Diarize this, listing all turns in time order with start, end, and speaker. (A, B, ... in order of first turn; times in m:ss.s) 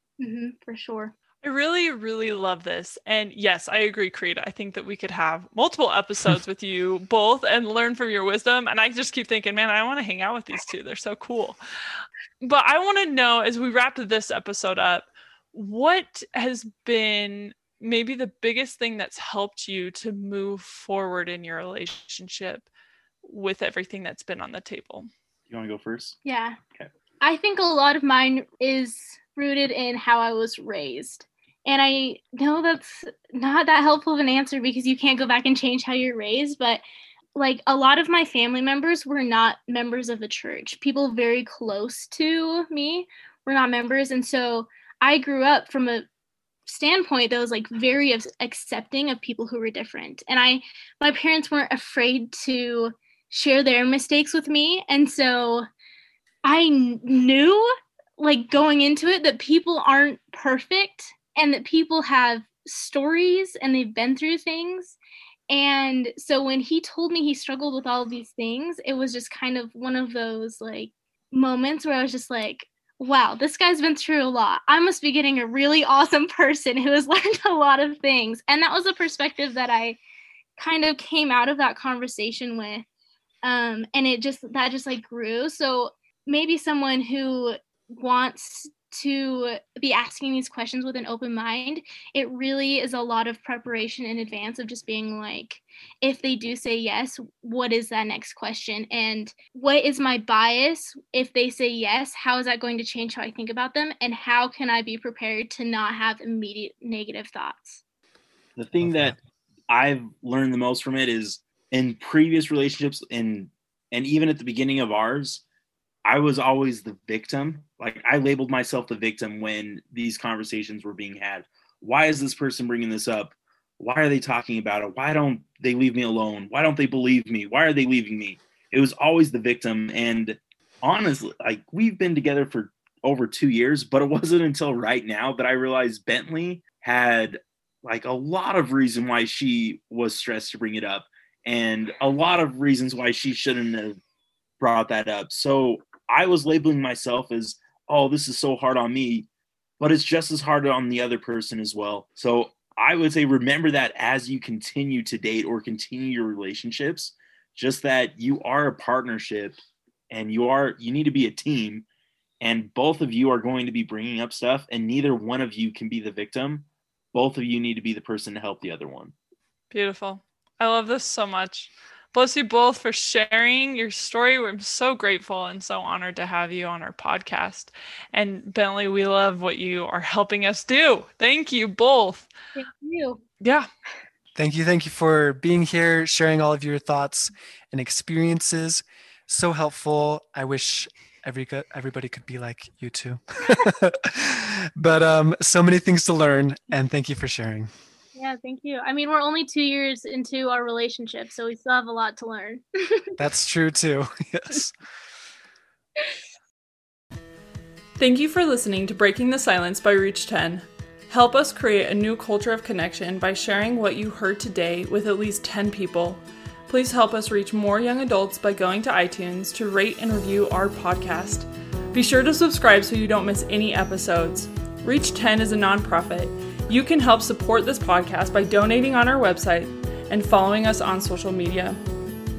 0:00.2-0:01.1 A
0:01.4-0:11.6 B
0:12.4-0:22.7 B
0:23.2-0:25.1 B
0:25.5-0:26.2 C
0:26.2-0:26.6 A
0:27.2-0:36.8 A
0:37.4-0:46.1 A
0:46.7-0:55.6 A
0:56.5-0:57.7 A
0:58.2-1:05.0 A
1:05.5-1:20.0 A
1:20.6-1:22.8 A
1:23.4-1:47.8 A
1:48.6-1:49.2 C
1:48.8-1:49.2 D
1:49.7-1:55.4 C
1:56.1-2:24.0 C
2:24.6-2:29.3 C
2:29.8-2:39.6 C
2:40.1-2:41.8 C
2:42.4-2:49.1 C
2:49.7-3:02.3 B
3:02.6-3:03.2 A
3:03.4-3:03.7 B
3:04.4-3:17.7 D
3:18.2-3:23.1 A
3:23.2-3:24.7 D
3:28.0-3:51.8 B